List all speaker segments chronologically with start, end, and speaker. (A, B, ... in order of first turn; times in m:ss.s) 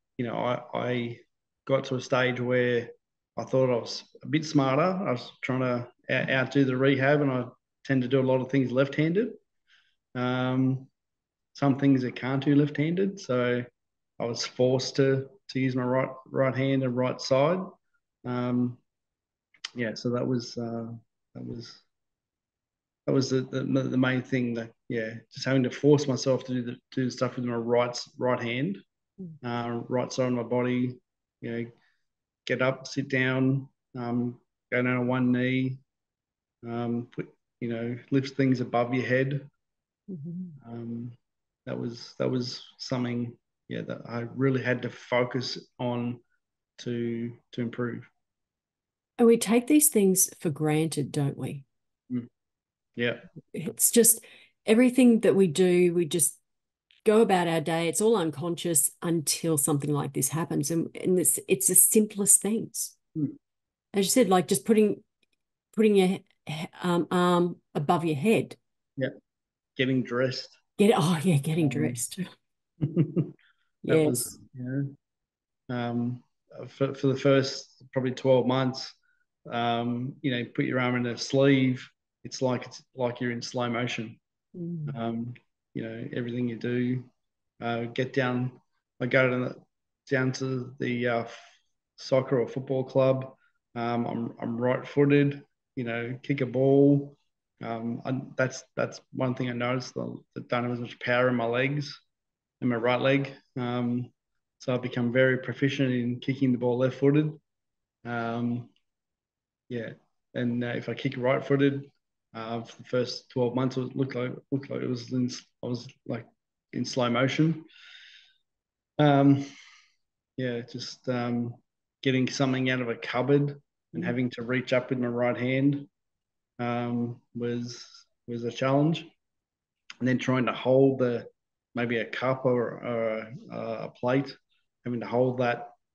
0:00.2-0:09.4 A
0:10.1-0:10.9 A
0:11.5-0:13.7 A
0:14.2-0:17.7 A
0:18.2-0:18.8 A
0:19.8-0:21.8 A
0:23.0-0:28.8 A
0:29.4-0:31.7 A
0:32.4-0:35.8 A
0:36.6-0:39.5 A
0:40.1-0:40.6 B
0:40.6-0:46.2 A
0:46.8-0:48.1 A
0:49.2-0:51.6 B
0:53.0-0:53.3 A
0:53.5-0:56.4 B
0:57.0-1:02.9 B
1:03.9-1:05.0 B
1:05.7-1:08.6 B
1:09.8-1:10.6 A
1:10.8-1:12.2 B
1:11.6-1:12.0 A
1:12.8-1:13.3 A
1:13.9-1:14.3 B
1:13.9-1:14.9 A
1:15.7-1:24.2 A
1:24.6-1:25.0 B
1:24.9-1:27.1 A
1:27.6-1:31.4 A
1:32.0-1:42.0 A
1:42.6-1:47.4 A
1:48.0-1:48.7 A
1:49.7-1:57.6 A
1:59.0-1:59.5 A
2:00.4-2:05.9 A
2:06.6-2:09.1 A
2:10.0-2:15.7 A